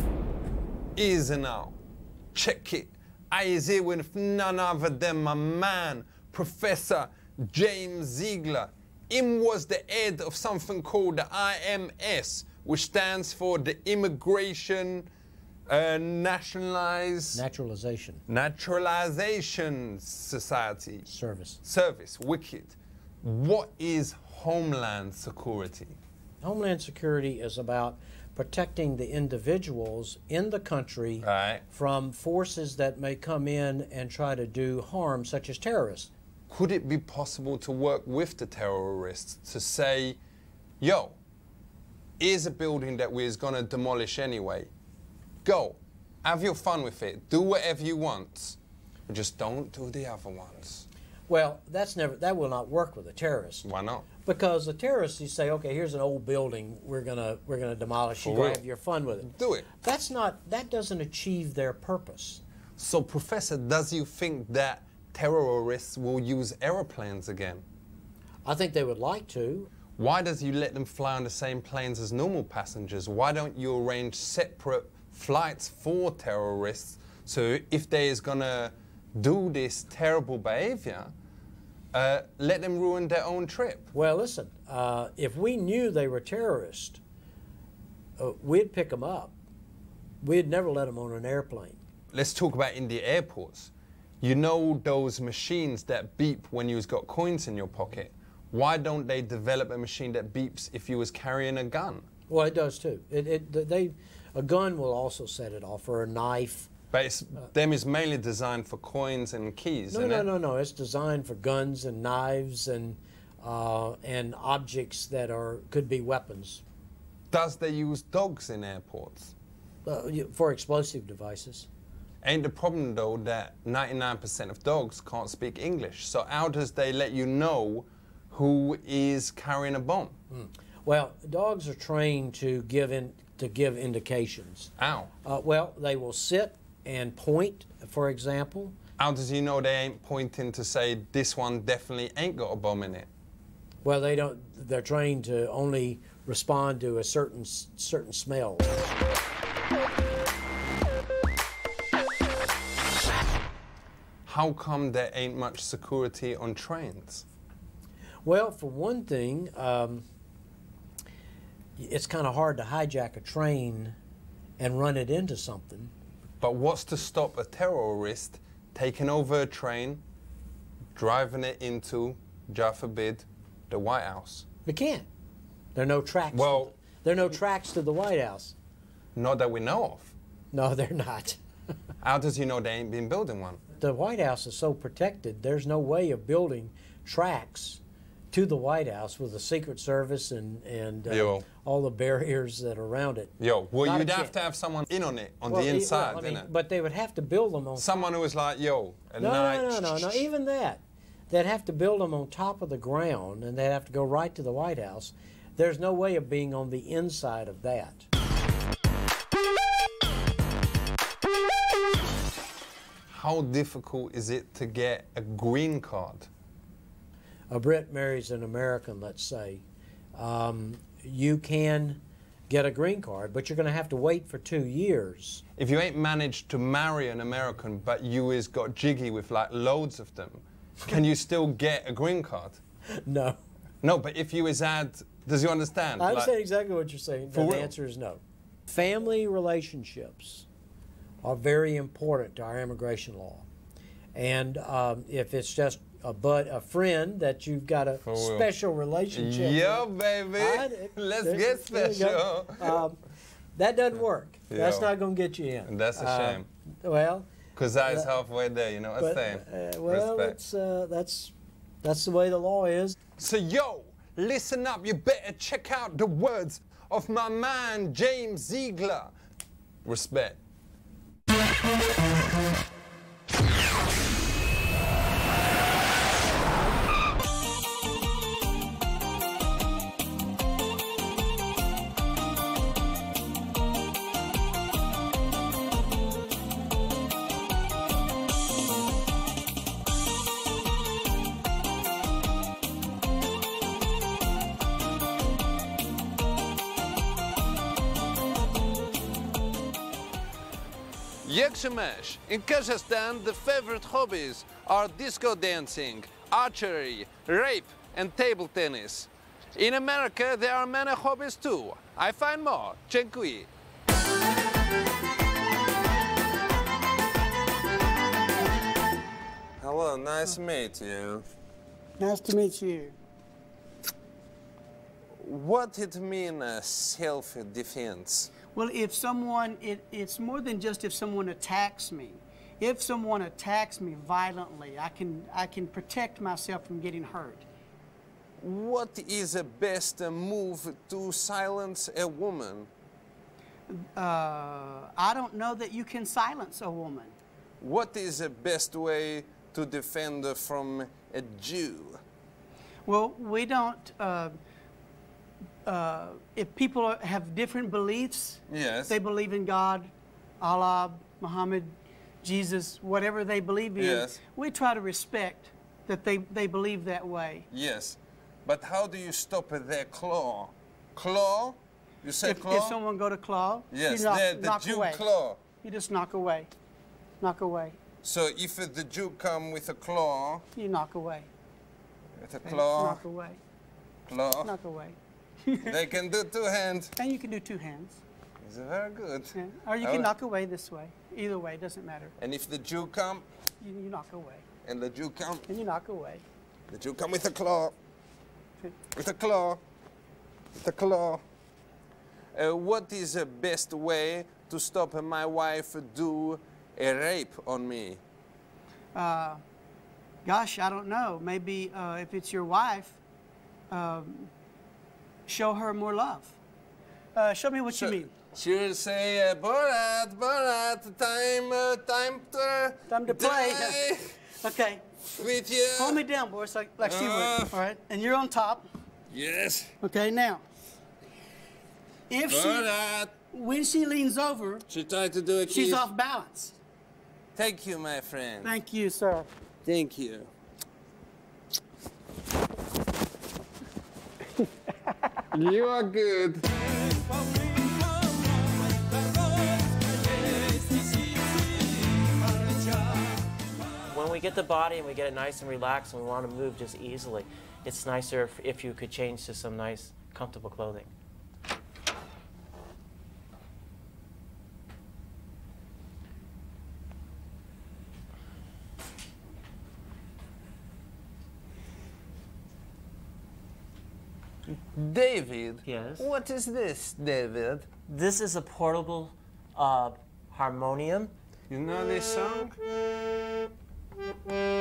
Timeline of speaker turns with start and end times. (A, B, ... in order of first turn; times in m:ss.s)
0:01.0-0:01.8 A
0:02.4-0:15.1 A
0:15.7-0:17.4 A
0:17.3-0:18.2 B
0:18.3-0:21.1 A
0:21.1-0:21.6 B
0:21.6-0:26.0 A
0:26.4-0:36.1 B
0:31.2-0:31.6 A
0:36.5-0:40.2 A
0:40.8-0:41.2 A
0:42.2-0:44.7 A
0:45.4-0:50.9 A
0:51.3-0:53.7 B
0:53.6-0:54.1 A
0:54.2-1:02.4 B
0:58.2-0:58.6 A
0:59.2-0:59.7 A
1:02.8-1:07.6 A
1:08.5-1:09.7 B
1:10.0-1:21.1 A
1:21.9-1:23.9 A
1:23.9-1:27.0 B
1:28.2-1:29.4 B
1:30.2-1:31.8 B
1:32.1-1:42.0 A
1:42.3-1:46.7 B
1:46.9-1:50.3 A
1:49.9-1:56.6 B
1:57.3-1:59.3 A
1:59.8-2:01.7 B
2:02.2-2:10.2 A
2:10.3-2:14.7 B
2:14.8-2:15.1 A
2:15.2-2:18.8 B
2:19.0-2:23.1 A
2:23.8-2:28.7 B
2:34.3-2:37.2 A
2:38.2-2:40.0 B
2:41.8-2:44.0 B
2:44.6-2:45.9 B
2:46.4-2:50.0 A
2:51.0-2:54.4 A
2:54.7-2:55.1 B
2:55.8-2:58.6 B
2:56.3-2:56.7 A
2:59.2-3:00.1 A
3:00.5-3:01.4 B
3:02.0-3:03.6 A
3:03.8-3:14.3 B
3:11.1-3:11.5 A
3:13.4-3:16.5 A
3:15.5-3:17.9 B
3:17.8-3:20.2 A
3:19.2-3:28.1 B
3:33.1-3:36.3 A
3:37.5-3:39.6 B
3:40.2-3:45.4 B
3:45.6-3:52.6 A
3:53.0-3:53.4 B
3:53.8-3:56.3 A
3:56.0-4:00.5 B
3:57.3-3:57.7 A
4:01.2-4:03.5 B
4:04.1-4:13.0 B
4:08.0-4:08.5 A
4:09.1-4:12.8 A
4:13.6-4:17.3 B
4:14.5-4:14.9 A
4:15.6-4:16.5 A
4:17.6-4:20.4 A
4:17.9-4:18.1 B
4:19.0-4:23.0 B
4:23.2-4:29.1 A
4:29.8-4:30.4 A
5:01.2-5:13.5 A
5:19.6-5:21.3 A
5:22.0-5:23.0 C
5:25.2-5:28.3 A
5:28.5-5:37.4 C
5:38.4-5:42.7 A
5:43.7-5:47.2 C
5:47.6-5:52.0 A
5:52.8-5:54.4 C
5:55.6-5:59.9 C
5:58.5-5:59.0 A
6:00.4-6:07.5 C
6:03.8-6:04.2 A
6:07.5-6:12.8 A
6:12.2-6:15.0 C
6:13.7-6:15.4 A
6:15.6-6:16.5 C
6:17.2-6:17.8 C
6:18.0-6:20.4 A
6:20.6-6:21.3 C
6:22.2-6:23.0 A
6:22.4-6:23.4 C
6:24.1-6:24.6 A
6:24.4-6:25.8 C
6:25.6-6:26.9 A
6:27.0-6:28.0 C
6:28.4-6:30.1 A
6:29.4-6:32.1 C
6:32.2-6:33.2 A
6:33.6-6:34.4 C
6:34.6-6:35.5 A
6:35.5-6:36.2 C
6:36.7-6:37.7 A
6:38.9-6:39.6 A
6:40.6-6:41.2 A
6:42.3-6:48.0 A
6:49.0-6:49.4 C
6:50.2-6:53.0 C
6:53.7-6:54.3 C
6:55.3-6:56.4 C
6:57.2-6:58.1 C
6:57.7-7:04.2 A
7:02.9-7:03.8 C
7:04.3-7:04.8 C
7:05.1-7:06.0 A
7:05.7-7:08.6 C
7:06.8-7:07.6 A
7:09.1-7:09.8 A
7:09.8-7:10.4 C
7:12.1-7:12.7 C
7:12.3-7:13.2 A
7:13.3-7:14.7 C
7:14.7-7:15.9 A
7:15.5-7:16.6 C
7:17.4-7:18.5 A
7:18.4-7:19.3 C
7:19.6-7:20.3 A
7:25.3-7:26.4 A
7:33.9-7:40.9 D
7:54.7-7:57.7 A
7:55.6-7:56.1 D
7:57.9-8:01.1 D
8:01.5-8:02.6 A